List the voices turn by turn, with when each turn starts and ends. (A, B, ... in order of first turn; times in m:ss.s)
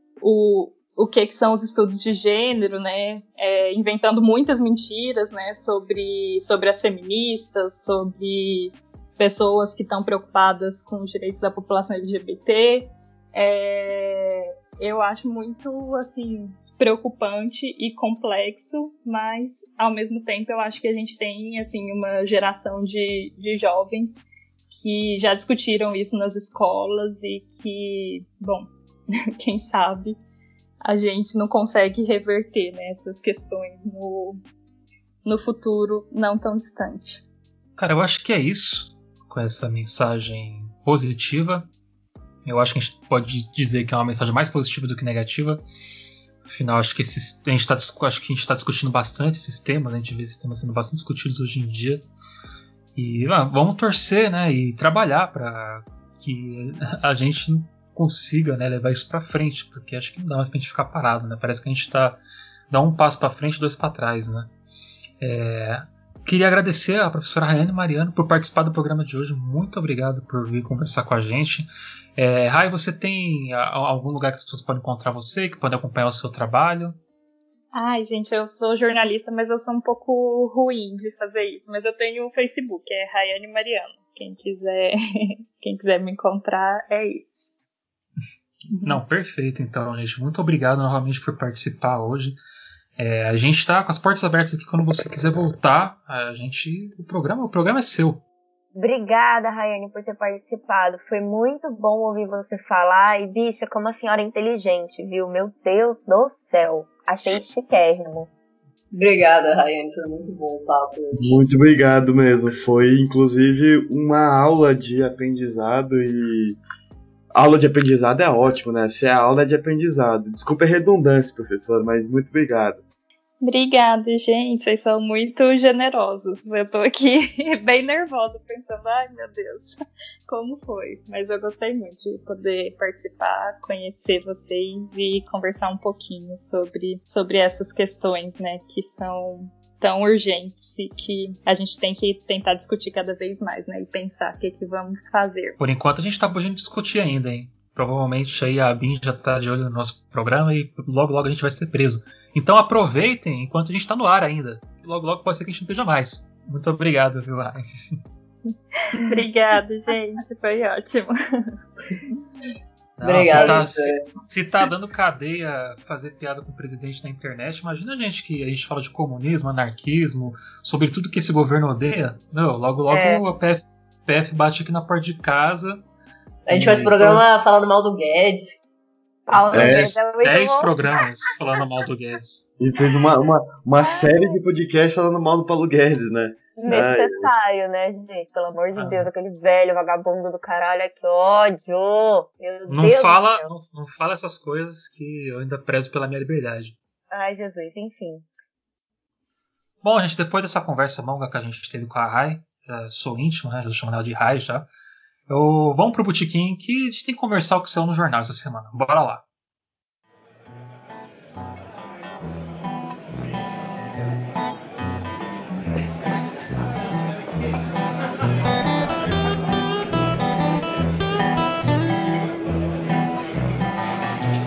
0:00.2-0:28.7 A
0:29.4-0:30.2 A
0:30.8-0:34.4 A
0:35.2-0:37.2 A
0:37.8-0:41.7 B
0:42.4-0:45.6 B
0:46.4-0:52.0 B
0:53.0-1:02.2 B
1:02.7-1:04.5 B
1:05.2-1:11.6 B
1:12.2-1:17.0 B
1:17.7-1:27.5 A
1:28.7-1:29.0 A
1:28.8-1:32.4 B
1:33.0-1:38.2 B
1:38.8-1:48.3 C
1:48.9-1:51.4 D
1:51.1-1:56.6 E
1:57.3-2:02.8 E
2:03.4-2:25.6 A
2:25.6-2:37.6 B
2:38.9-2:41.1 A
2:43.0-2:55.8 B
2:43.0-2:44.0 D
2:52.9-2:53.2 C
2:56.5-2:58.6 D
2:56.6-2:57.2 E
2:59.3-3:00.7 C
2:59.5-2:59.9 E
2:59.5-3:02.5 B
3:02.6-3:07.3 E
3:03.8-3:04.4 C
3:06.6-3:13.5 C
3:08.8-3:09.1 B
3:12.7-3:16.8 B
3:17.1-3:18.2 C
3:19.8-3:24.7 B
3:25.3-3:29.2 B